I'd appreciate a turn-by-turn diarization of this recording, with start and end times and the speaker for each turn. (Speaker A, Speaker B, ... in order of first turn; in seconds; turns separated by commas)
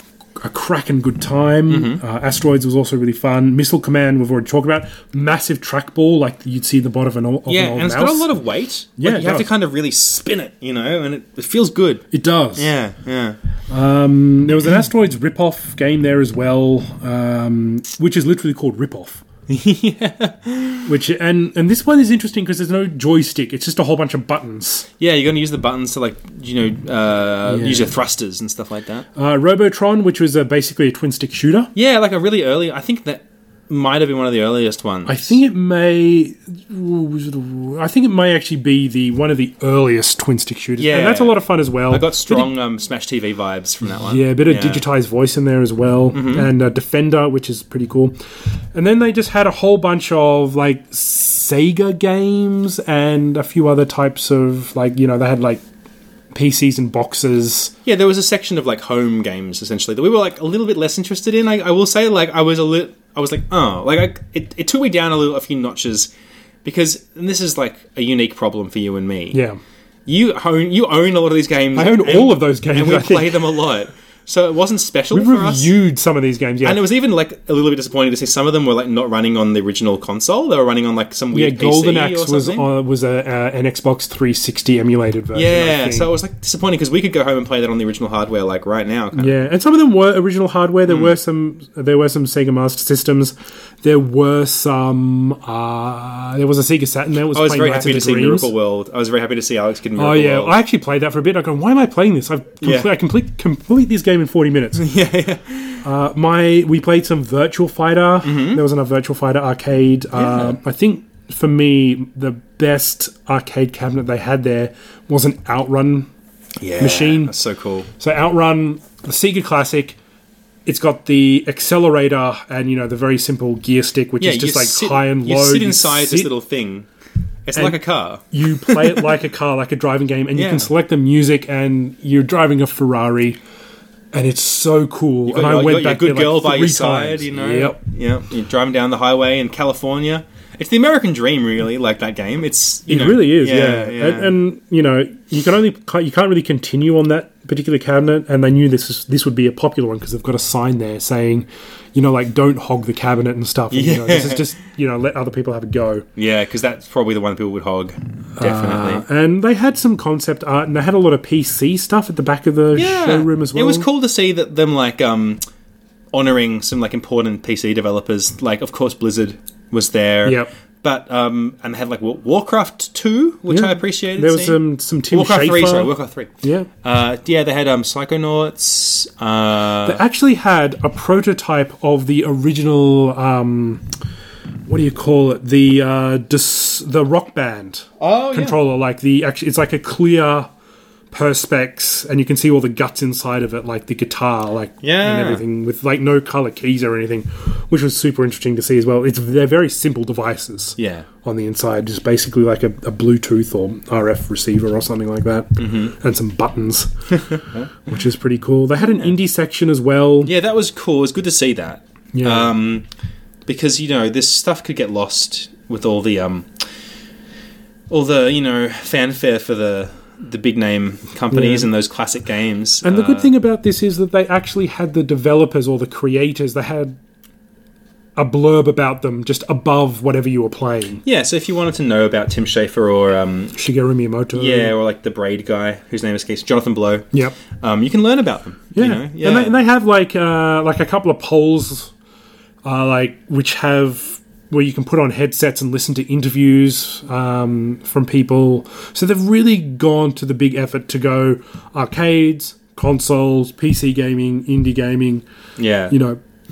Speaker A: 0.4-8.3, Speaker B: 1.7-2.0, Speaker B: 7.5-12.0, Speaker A: 9.0-9.5, Speaker A: 12.1-12.7, Speaker B: 12.6-13.4, Speaker A: 13.7-19.2, Speaker B: 19.5-20.9, Speaker A: 20.9-24.9, Speaker B: 25.0-29.1, Speaker A: 27.5-27.9, Speaker A: 29.1-31.7, Speaker B: 31.7-35.4, Speaker A: 35.0-42.5, Speaker B: 40.8-44.8, Speaker A: 44.0-48.1, Speaker B: 46.1-46.5, Speaker A: 48.7-55.6, Speaker A: 56.3-57.7, Speaker B: 57.8-66.1, Speaker B: 66.6-69.4, Speaker A: 69.3-69.6, Speaker B: 70.1-75.7, Speaker A: 71.7-73.5, Speaker A: 75.1-76.8, Speaker B: 76.6-82.7, Speaker A: 81.3-86.1, Speaker B: 85.3-89.4, Speaker A: 89.2-98.5, Speaker B: 90.9-91.1, Speaker B: 97.3-100.5, Speaker A: 100.0-104.9, Speaker B: 102.6-102.9, Speaker B: 104.7-105.8, Speaker A: 105.8-116.1, Speaker B: 108.2-108.6, Speaker B: 110.1-110.6, Speaker B: 116.6-117.9, Speaker A: 116.8-117.3, Speaker A: 118.0-120.0, Speaker A: 120.7-126.3, Speaker B: 124.2-126.9, Speaker B: 127.5-129.1, Speaker A: 127.5-133.4, Speaker B: 130.3-130.7, Speaker A: 134.1-137.8, Speaker B: 135.3-144.3, Speaker A: 142.9-156.1, Speaker B: 153.7-154.5, Speaker B: 156.2-159.0, Speaker A: 158.4-163.9, Speaker B: 162.7-165.4, Speaker B: 166.1-174.6, Speaker A: 170.2-170.5, Speaker A: 173.5-176.7, Speaker B: 175.1-176.3, Speaker B: 176.8-180.0, Speaker A: 179.8-183.9, Speaker A: 184.7-190.5, Speaker B: 188.0-188.6, Speaker A: 191.1-210.3, Speaker B: 194.8-195.4, Speaker B: 200.8-201.1, Speaker B: 205.6-205.9, Speaker B: 207.2-207.7, Speaker B: 208.8-209.1, Speaker B: 210.2-212.8, Speaker A: 212.1-212.5, Speaker B: 213.5-216.6, Speaker B: 217.9-223.3, Speaker A: 221.3-221.7, Speaker A: 222.8-226.9, Speaker A: 228.2-231.0, Speaker B: 231.0-233.6, Speaker A: 233.5-234.7, Speaker B: 234.3-239.5, Speaker A: 238.7-241.9, Speaker A: 242.6-255.2, Speaker B: 255.6-255.9, Speaker A: 255.9-256.2